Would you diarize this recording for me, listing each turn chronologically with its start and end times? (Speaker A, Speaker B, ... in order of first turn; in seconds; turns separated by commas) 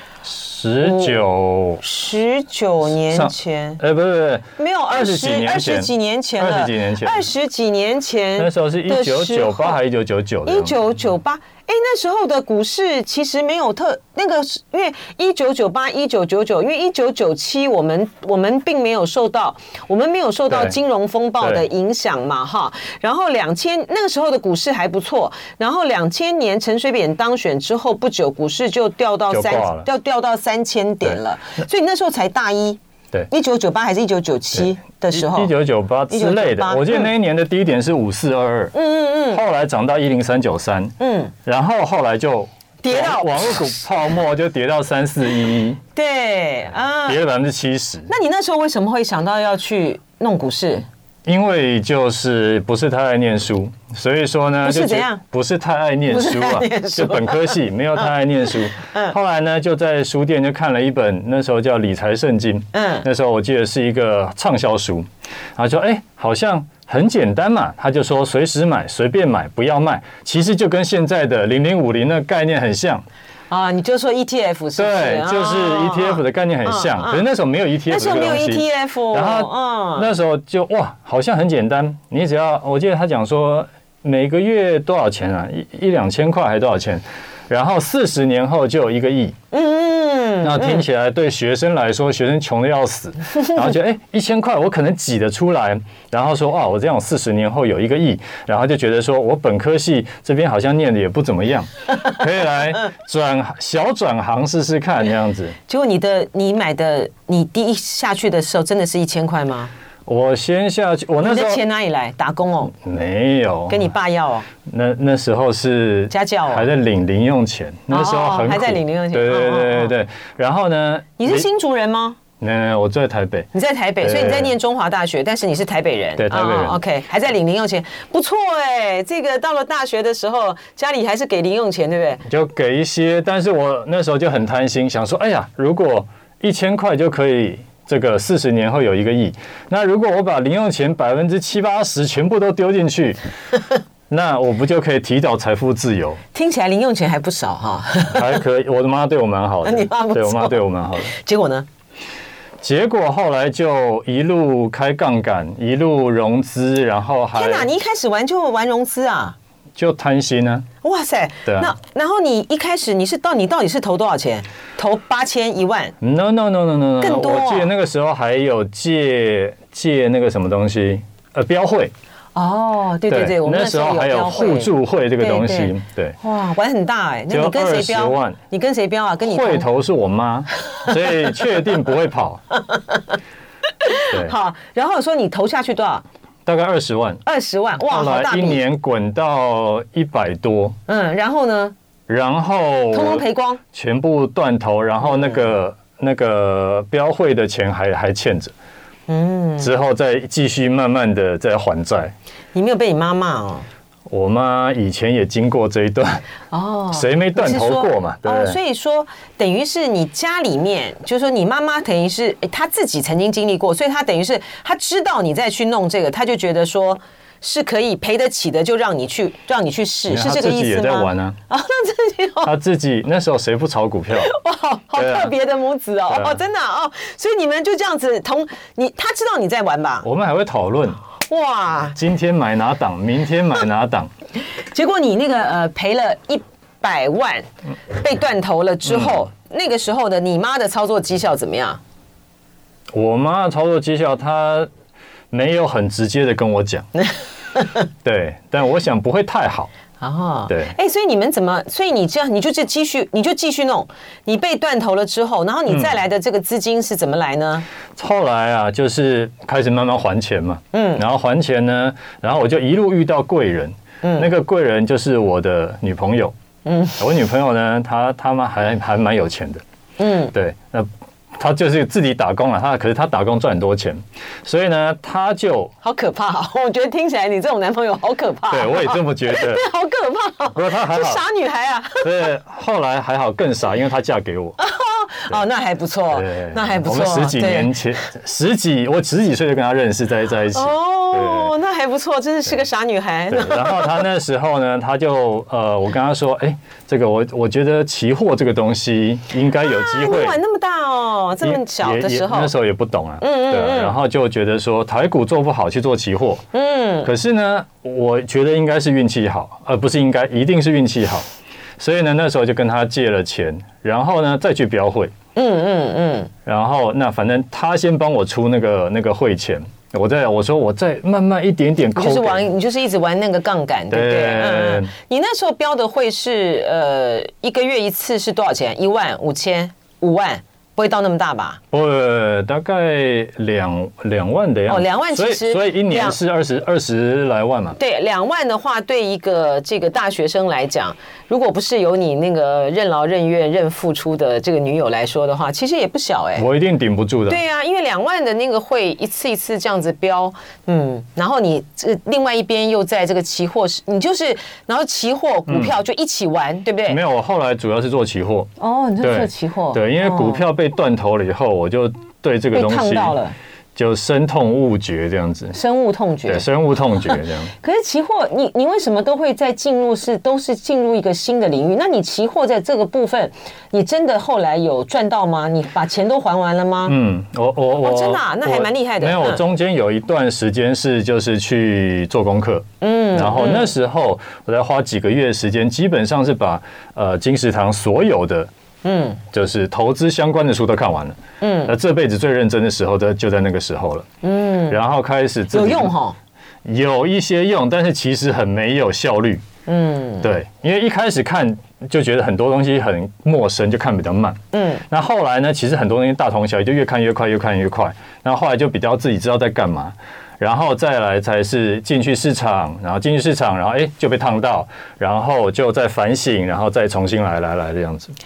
Speaker A: 0.2-1.8, Speaker B: 0.8-1.2, Speaker B: 1.8-3.8, Speaker A: 3.1-7.2, Speaker B: 4.6-9.8, Speaker A: 8.4-10.7, Speaker B: 10.4-35.5, Speaker A: 20.5-20.8, Speaker A: 21.4-21.6, Speaker A: 29.3-29.9, Speaker A: 34.5-38.7, Speaker B: 36.1-37.1, Speaker B: 38.7-39.4, Speaker A: 39.3-40.9, Speaker B: 41.0-41.3, Speaker A: 41.4-45.8, Speaker B: 42.8-43.7, Speaker B: 45.9-47.2, Speaker A: 47.1-48.1, Speaker B: 48.1-50.9, Speaker A: 51.2-73.0, Speaker B: 54.6-55.2, Speaker B: 56.1-58.1, Speaker B: 58.8-59.1, Speaker B: 62.7-63.0, Speaker B: 73.5-77.2, Speaker A: 74.8-89.3, Speaker B: 77.9-80.1, Speaker B: 89.5-90.8, Speaker A: 90.4-105.5, Speaker B: 105.7-109.7, Speaker A: 110.0-111.6, Speaker B: 111.2-112.7, Speaker A: 112.8-113.9, Speaker B: 113.7-114.5, Speaker A: 114.7-121.5, Speaker B: 116.1-116.7, Speaker B: 117.9-119.9, Speaker B: 121.2-122.2, Speaker A: 122.4-123.5, Speaker B: 123.5-132.2, Speaker A: 124.0-124.5, Speaker A: 126.2-126.8, Speaker A: 132.3-143.2, Speaker A: 144.1-146.2, Speaker B: 146.3-148.4, Speaker A: 148.1-151.1, Speaker B: 149.6-151.7, Speaker A: 152.6-157.7, Speaker B: 157.3-159.3, Speaker A: 159.8-160.7, Speaker B: 160.8-165.9, Speaker A: 161.4-161.7, Speaker A: 166.0-171.9, Speaker B: 167.0-167.7, Speaker B: 172.3-179.7, Speaker A: 173.1-176.2, Speaker A: 177.3-178.4, Speaker A: 179.2-182.4, Speaker B: 182.6-183.0, Speaker B: 183.8-186.0, Speaker A: 186.4-187.2, Speaker B: 187.2-188.6, Speaker A: 187.8-190.8, Speaker B: 190.9-191.7, Speaker A: 192.1-198.5, Speaker B: 192.9-193.6, Speaker B: 199.1-199.7, Speaker A: 199.6-202.1, Speaker B: 202.5-203.7, Speaker A: 204.1-206.2, Speaker B: 206.5-222.5, Speaker A: 206.9-208.6, Speaker A: 220.1-221.4, Speaker A: 222.4-224.3, Speaker B: 224.2-230.1, Speaker A: 224.9-225.3, Speaker A: 226.1-226.4, Speaker A: 230.0-231.0, Speaker B: 231.3-231.9, Speaker A: 231.9-234.1, Speaker B: 234.7-241.8, Speaker A: 238.9-239.2, Speaker A: 242.9-244.7, Speaker A: 245.3-246.9, Speaker A: 248.0-249.7, Speaker B: 250.0-257.6, Speaker A: 255.7-255.9, Speaker A: 257.9-266.3, Speaker B: 260.7-261.0, Speaker B: 264.0-264.3, Speaker B: 266.6-267.0, Speaker A: 267.0-269.6, Speaker B: 270.0-270.3, Speaker A: 270.3-275.7, Speaker B: 275.8-282.2, Speaker A: 278.5-279.6, Speaker A: 280.5-281.2, Speaker A: 282.0-284.6, Speaker B: 284.6-287.8, Speaker A: 286.1-291.5, Speaker B: 290.5-294.0, Speaker A: 293.3-300.4, Speaker B: 299.6-302.5, Speaker A: 301.4-306.4, Speaker B: 303.2-303.9, Speaker B: 306.5-307.1, Speaker A: 307.0-311.2, Speaker A: 311.8-315.1, Speaker B: 315.3-316.3, Speaker A: 316.4-322.4, Speaker B: 321.9-331.6, Speaker A: 323.9-324.9, Speaker A: 331.7-337.8, Speaker B: 334.7-336.2, Speaker B: 337.8-346.5, Speaker A: 346.4-347.4, Speaker B: 347.3-357.0, Speaker A: 355.5-355.7, Speaker A: 356.9-358.5, Speaker B: 358.6-360.4, Speaker A: 359.0-363.2, Speaker B: 362.5-363.3, Speaker A: 363.7-365.6, Speaker B: 365.5-366.4, Speaker A: 366.3-367.5, Speaker B: 367.1-377.0, Speaker A: 376.9-388.5, Speaker B: 377.8-379.4, Speaker B: 382.8-383.7, Speaker B: 388.8-389.2, Speaker A: 389.3-394.1, Speaker B: 391.4-391.7, Speaker B: 394.2-394.8, Speaker A: 394.7-395.9, Speaker B: 395.5-396.2, Speaker A: 396.6-399.4, Speaker B: 399.7-400.3, Speaker A: 400.2-418.1, Speaker B: 404.5-404.8